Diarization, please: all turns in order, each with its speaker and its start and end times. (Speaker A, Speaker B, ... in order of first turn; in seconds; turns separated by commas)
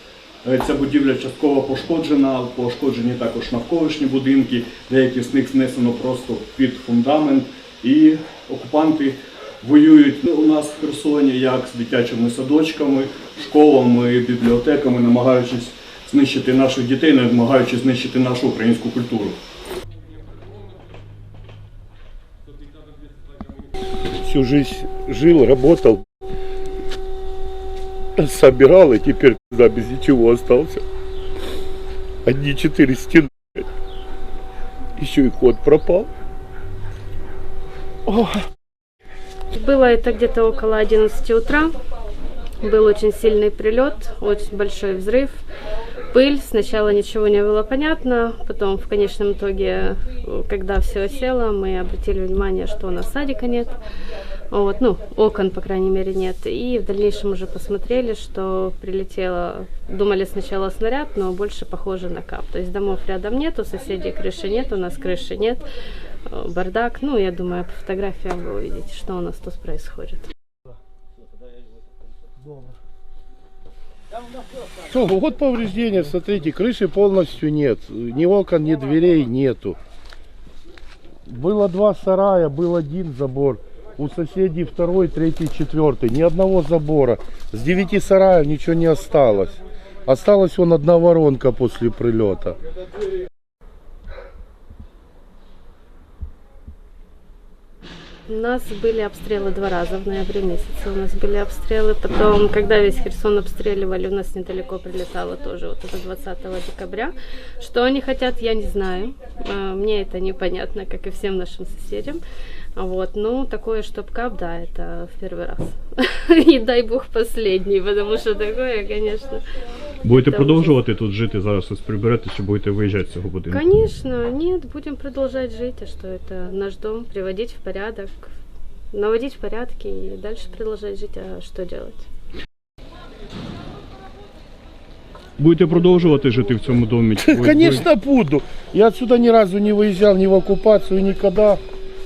Speaker A: 0.4-19.4, Speaker B: 24.1-26.1, Speaker B: 28.2-30.8, Speaker B: 32.2-33.6, Speaker B: 35.0-36.1, Speaker B: 38.1-38.5, Speaker C: 39.5-41.7, Speaker C: 42.6-45.4, Speaker C: 46.1-53.8, Speaker C: 54.5-65.6, Speaker C: 66.3-70.3, Speaker B: 74.9-79.8, Speaker B: 81.3-92.6, Speaker C: 98.3-112.2, Speaker C: 112.8-119.5, Speaker A: 120.0-123.6, Speaker C: 120.1-120.7, Speaker C: 123.5-128.3, Speaker C: 128.9-132.1, Speaker A: 135.4-137.9, Speaker B: 137.2-141.6